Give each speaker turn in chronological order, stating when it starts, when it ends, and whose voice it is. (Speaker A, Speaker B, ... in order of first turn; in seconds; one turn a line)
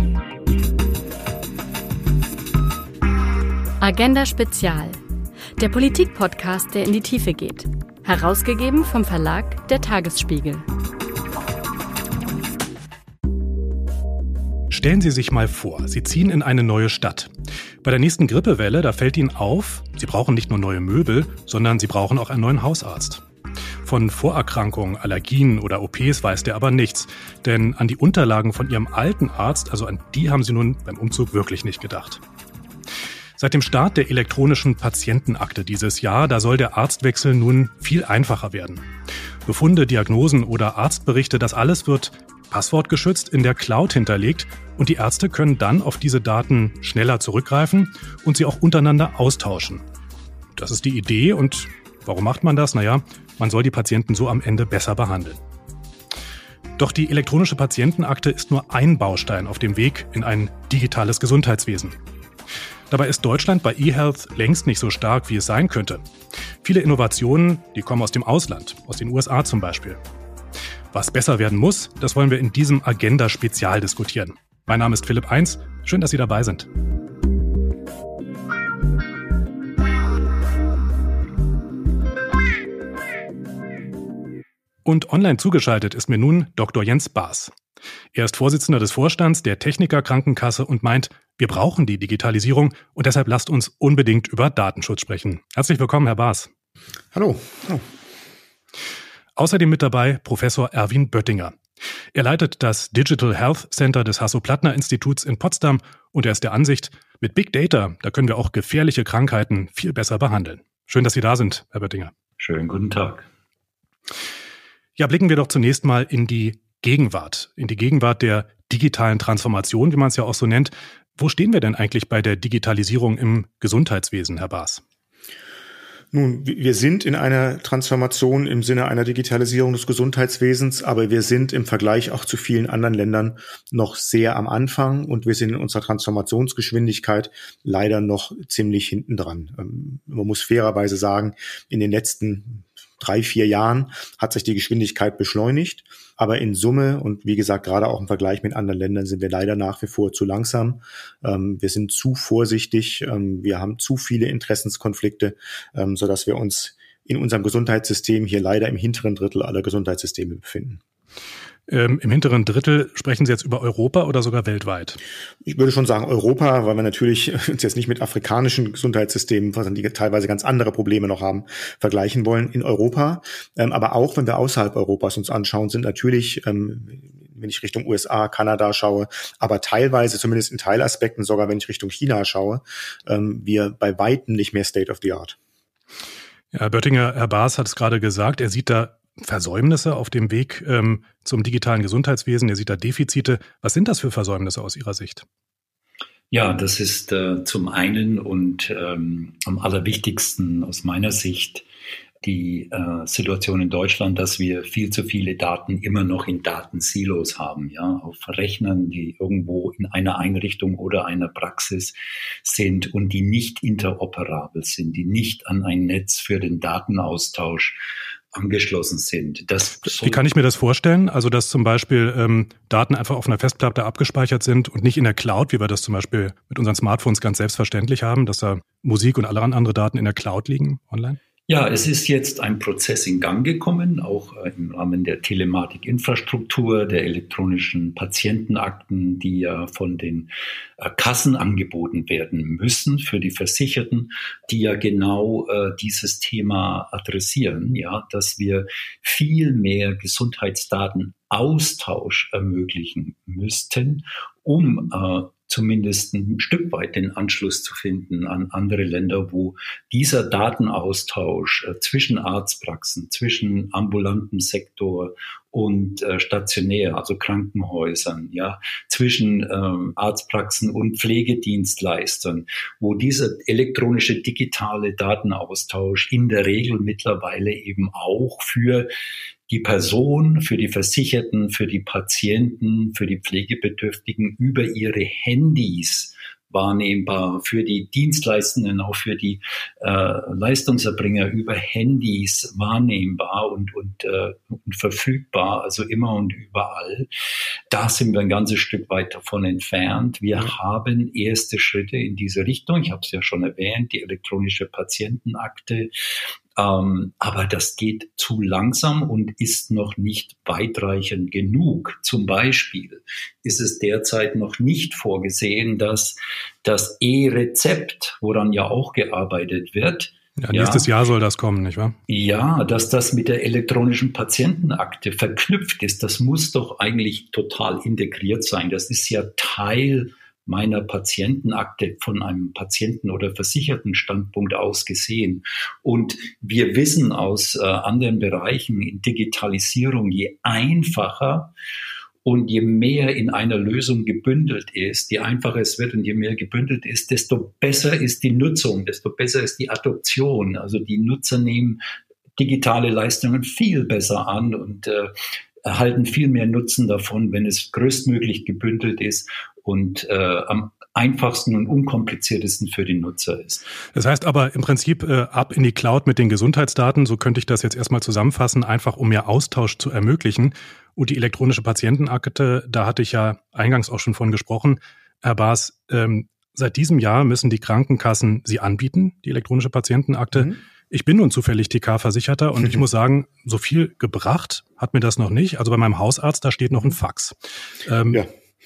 Speaker A: 3.8-5.0
Speaker A: 5.6-10.6
Speaker B: 14.7-17.3
Speaker B: 17.8-23.2
Speaker B: 23.8-32.2
Speaker B: 33.4-38.8
Speaker B: 39.5-49.8
Speaker B: 50.5-55.4
Speaker B: 56.8-62.0
Speaker B: 62.9-66.0
Speaker B: 66.6-70.0
Speaker B: 70.9-76.7
Speaker B: 84.8-87.5
Speaker B: 88.1-96.5
Speaker C: 97.1-97.8
Speaker B: 99.3-101.5
Speaker B: 102.1-112.1
Speaker D: 112.4-113.3
Speaker B: 115.0-124.8
Speaker C: 126.1-160.8
Speaker B: 161.7-165.0
Speaker C: 165.4-185.4
Speaker B: 186.5-195.2
Speaker D: 196.3-201.6
Speaker D: 202.2-217.8
Speaker D: 218.3-220.2
Speaker B: 219.8-231.2
Speaker D: 231.5-278.9
Speaker D: 279.5-297.1
Speaker D: 297.7-305.9
Speaker D: 306.6-320.9
Speaker B: 320.4-321.9
Speaker D: 322.1-341.5
Speaker D: 342.2-351.8
Speaker D: 352.4-363.6
Speaker B: 363.9-387.3
Speaker B: 387.9-388.2